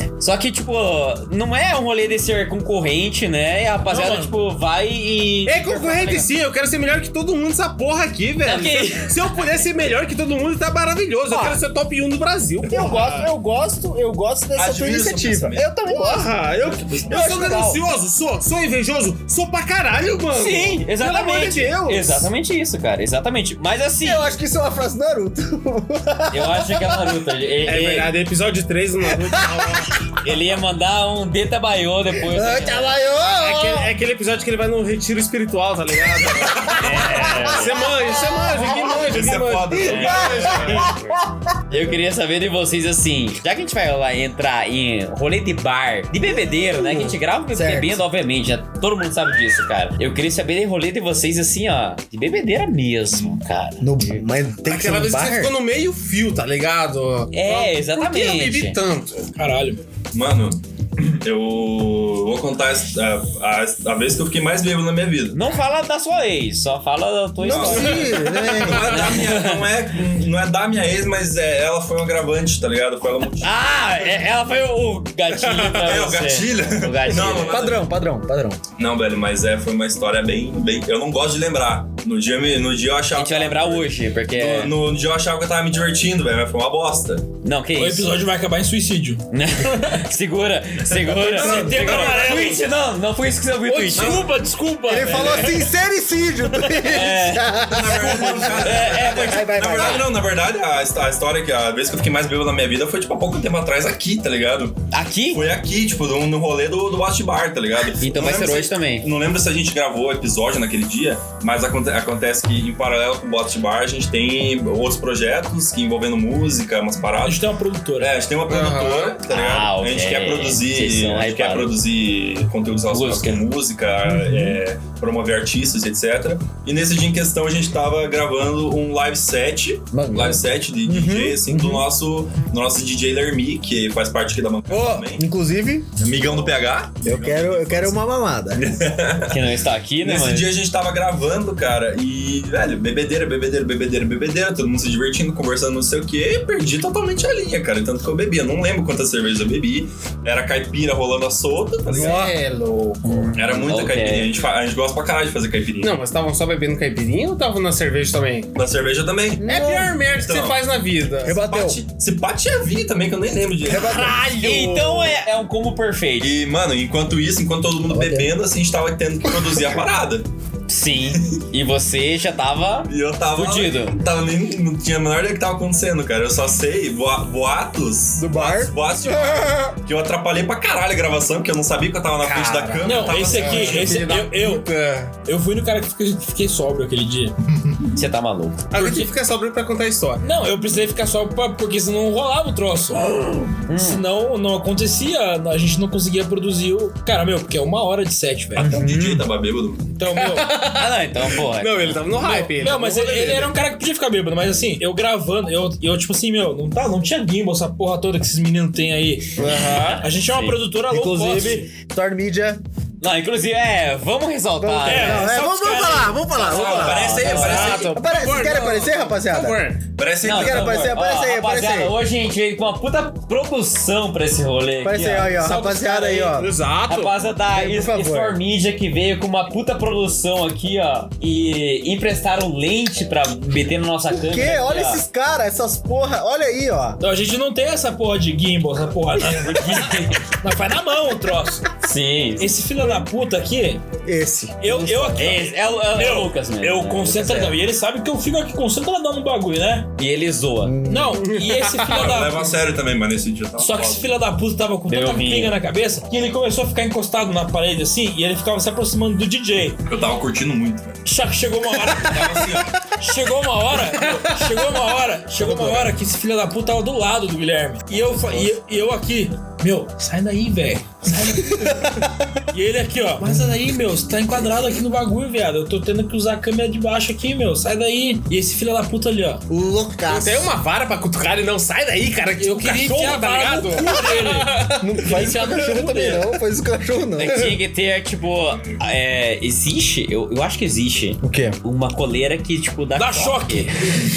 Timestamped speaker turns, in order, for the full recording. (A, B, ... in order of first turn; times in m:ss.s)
0:00.2-0:06.3 A
0:03.9-0:04.3 B
0:05.4-0:13.3 C
0:08.4-0:09.3 A
0:11.3-0:11.6 D
0:12.7-0:17.8 D
0:14.6-0:15.7 E
0:15.9-0:22.2 C
0:20.3-0:24.3 A
0:21.6-0:22.2 D
0:24.0-0:27.2 D
0:26.3-0:28.2 A
0:27.6-0:29.9 C
0:29.1-0:29.8 D
0:30.2-0:33.0 A
0:32.2-0:33.9 D
0:33.3-0:40.9 C
0:36.2-0:36.7 E
0:36.8-0:37.8 A
0:36.9-0:41.5 D
0:38.7-0:40.9 E
0:39.9-0:40.8 A
0:41.7-0:54.2 A
0:46.3-0:48.0 D
0:53.8-0:55.6 D
0:54.6-0:59.3 C
0:57.3-0:58.8 A
0:59.4-0:59.8 B
1:00.1-1:05.4 E
1:05.3-1:08.1 A
1:07.4-1:09.1 D
1:07.4-1:13.5 E
1:08.8-1:09.6 A
1:13.4-1:17.7 A
1:15.4-1:16.0 C
1:15.8-1:17.8 E
1:17.2-1:18.6 D
1:18.8-1:27.3 E
1:23.1-1:24.7 A
1:27.4-1:28.1 A
1:27.7-1:30.0 B
1:29.3-1:34.2 A
1:30.8-1:32.5 E
1:31.3-1:32.7 B
1:33.7-1:35.6 B
1:34.0-1:34.4 E
1:34.9-1:40.1 D
1:34.9-1:35.3 C
1:36.8-1:40.0 A
1:37.6-1:57.4 E
1:44.9-1:45.4 A
1:48.0-1:49.1 A
1:57.2-1:58.1 B
1:58.0-2:15.2 E
1:58.5-1:59.2 C
1:59.3-2:01.7 A
2:02.9-2:03.4 A
2:04.1-2:04.6 D
2:09.9-2:11.8 D
2:14.7-2:15.9 D
2:16.0-2:18.0 E
2:17.0-2:18.7 D
2:18.5-2:32.3 E
2:19.2-2:20.5 A
2:31.9-2:33.3 C
2:31.9-2:32.3 D
2:33.0-2:34.3 A
2:33.4-2:36.0 E
2:35.8-2:38.5 C
2:38.5-2:39.5 E
2:39.4-2:40.0 D
2:39.4-2:41.4 C
2:40.1-2:40.6 E
2:41.2-2:41.8 D
2:41.3-2:44.1 E
2:43.6-2:44.8 D
2:43.7-2:45.2 C
2:44.4-2:46.4 A
2:46.2-2:50.3 E
2:47.9-2:48.3 D
2:50.7-2:54.0 A
2:52.9-3:03.9 E
2:58.2-2:59.7 D
3:02.2-3:05.2 C
3:02.8-3:04.7 B
3:05.2-3:07.3 B
3:07.9-3:08.7 A
3:08.7-3:10.2 C
3:08.8-3:09.0 B
3:10.2-3:18.8 B
3:13.7-3:14.0 A
3:18.6-3:19.2 D
3:18.6-3:19.9 E
3:20.0-3:20.5 B
3:20.1-3:23.5 C
3:20.7-3:22.0 A
3:22.1-3:31.7 B
3:29.4-3:29.8 D
3:29.4-3:29.9 C
3:29.7-3:30.6 A
3:30.9-3:32.6 D
3:33.0-3:35.4 A
3:34.6-3:37.3 D
3:34.8-3:36.3 B
3:36.4-3:37.8 A
3:36.4-3:38.0 E
3:37.2-3:39.8 C
3:37.9-3:39.6 D
3:40.0-3:40.9 E
3:40.2-3:42.0 D
3:40.2-3:45.6 A
3:44.8-3:46.5 D
3:45.4-3:46.3 B
3:46.1-3:47.2 C
3:46.9-3:55.0 A
3:47.5-3:48.4 D
3:54.1-3:57.0 D
3:57.0-4:01.7 B
3:59.3-4:00.2 A
4:01.8-4:02.6 A
4:02.4-4:03.8 B
4:04.0-4:05.4 D
4:04.6-4:09.9 B
4:05.2-4:07.5 A
4:10.0-4:10.8 A
4:10.6-4:11.3 D
4:10.8-4:12.6 B
4:11.2-4:12.0 C
4:11.8-4:14.0 E
4:13.6-4:19.8 B
4:14.9-4:15.6 A
4:19.9-4:21.0 E
4:21.0-4:32.0 B
4:21.9-4:22.8 E
4:24.0-4:24.5 C
4:25.4-4:25.9 D
4:32.5-4:39.4 B
4:39.5-4:40.5 D
4:40.1-4:45.6 C
4:42.4-4:46.2 B
4:44.8-4:47.6 D
4:47.2-4:53.7 A
4:51.2-4:51.6 D
4:52.9-4:53.9 B